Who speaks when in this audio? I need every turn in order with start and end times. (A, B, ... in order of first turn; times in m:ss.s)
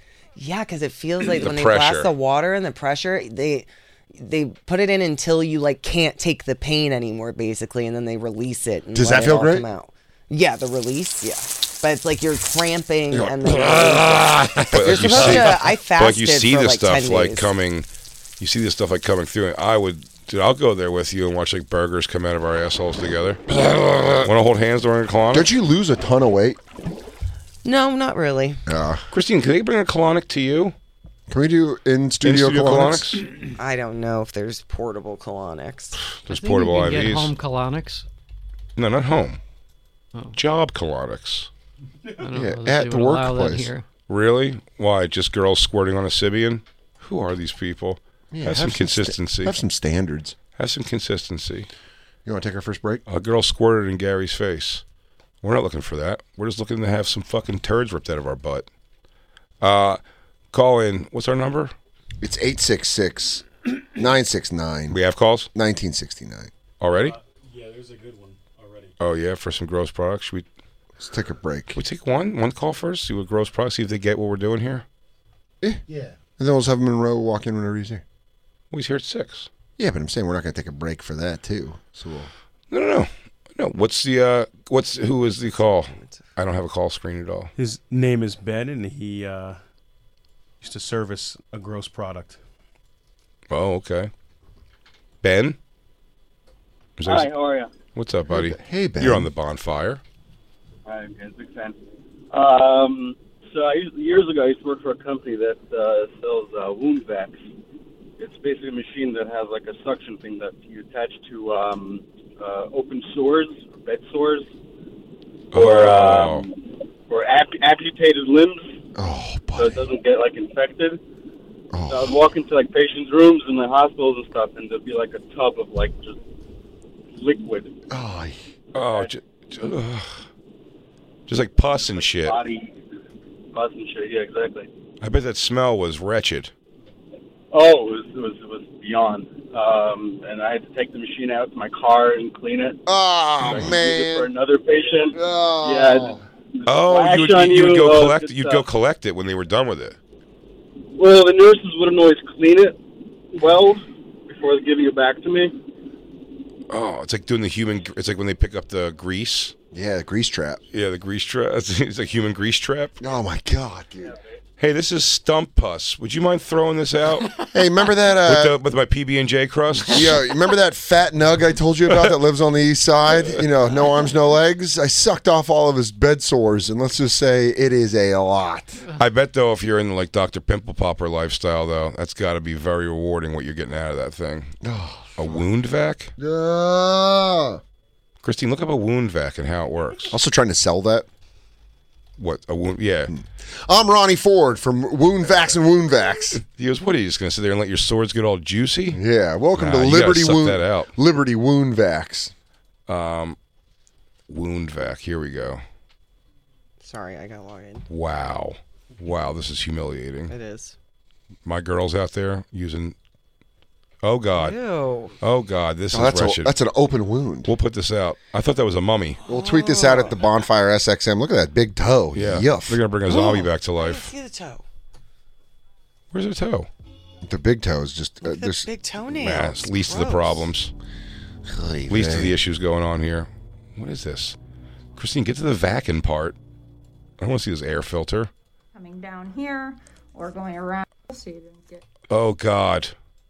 0:00.4-0:17.5 A
0:01.3-0:02.1 B
0:08.9-0:09.6 C
0:13.3-0:17.9 B
0:14.7-0:15.6 C
0:18.4-0:23.6 B
0:24.1-0:25.5 B
0:25.3-0:26.6 C
0:27.6-0:28.6 A
0:28.6-0:29.0 C
0:29.1-0:30.7 B
0:31.3-0:33.2 C
0:32.2-0:33.3 B
0:33.6-0:36.0 A
0:36.0-0:37.3 B
0:36.3-0:38.0 D
0:38.8-0:39.4 B
0:40.4-0:41.5 B
0:42.2-0:43.8 D
0:42.3-0:43.7 C
0:44.1-0:49.6 B
0:48.3-0:50.4 C
0:50.5-0:51.7 B
0:52.2-0:53.0 C
0:53.1-0:54.8 B
0:55.4-0:58.7 B
0:59.6-1:00.0 B
1:00.5-1:01.7 B
1:02.2-1:05.0 C
1:04.9-1:05.5 B
1:05.5-1:06.5 C
1:06.8-1:07.2 B
1:06.9-1:08.9 E
1:09.0-1:10.4 B
1:11.0-1:11.8 C
1:11.7-1:14.8 B
1:16.4-1:18.0 C
1:18.7-1:19.5 B
1:19.8-1:22.3 C
1:22.7-1:27.5 B
1:25.9-1:26.2 A
1:27.6-1:29.6 E
1:30.6-1:32.4 E
1:33.5-1:34.1 B
1:35.2-1:35.6 B
1:37.0-1:37.3 B
1:37.0-1:37.7 F
1:37.9-1:40.0 B
1:38.3-1:39.3 C
1:40.8-1:41.8 F
1:42.3-1:47.4 F
1:48.2-1:54.4 F
1:55.5-1:56.5 B
1:55.5-1:56.6 F
1:57.1-1:58.7 F
1:59.0-1:59.8 C
1:59.6-2:01.0 F
2:01.7-2:02.3 C
2:01.9-2:06.2 F
2:07.1-2:07.7 F
2:07.9-2:08.4 C
2:08.7-2:10.2 B
2:08.8-2:09.1 F
2:11.3-2:12.4 B
2:11.9-2:12.8 F
2:13.5-2:14.7 F
2:15.0-2:16.5 B
2:17.5-2:22.8 F
2:22.9-2:24.3 C
2:23.6-2:26.2 F
2:25.1-2:26.2 C
2:26.6-2:30.0 B
2:26.8-2:28.6 F
2:31.0-2:32.8 F
2:33.3-2:35.5 F
2:36.7-2:39.5 B
2:39.7-2:40.6 C
2:40.7-2:43.0 B
2:43.0-2:44.1 C
2:44.6-2:47.3 B
2:47.5-2:48.6 C
2:48.2-2:50.2 B
2:49.8-2:58.8 C
2:51.9-2:52.1 B
2:59.0-3:04.5 B
3:04.6-3:05.3 C
3:05.2-3:06.1 B
3:06.2-3:07.6 C
3:08.2-3:10.2 B
3:10.1-3:11.0 C
3:12.2-3:13.1 B
3:13.1-3:16.4 C
3:16.4-3:19.0 B
3:18.9-3:22.3 C
3:19.5-3:20.9 B
3:22.9-3:23.4 B
3:24.3-3:25.6 B
3:26.8-3:27.9 A
3:27.9-3:30.3 B
3:30.3-3:30.7 A
3:31.4-3:32.9 B
3:34.0-3:34.6 B
3:34.3-3:35.1 A
3:35.2-3:36.5 B
3:35.9-3:37.5 C
3:37.4-3:39.2 B
3:39.2-3:40.3 A
3:39.3-3:42.8 C
3:42.1-3:44.1 B
3:43.0-3:44.6 A
3:46.1-3:46.7 B
3:47.2-3:48.7 C
3:48.2-3:50.5 A
3:49.1-3:50.7 B
3:51.5-3:52.4 C
3:51.9-3:54.4 B
3:55.0-3:56.4 B
3:57.2-3:58.3 B
3:58.7-4:01.8 G
4:02.1-4:02.9 B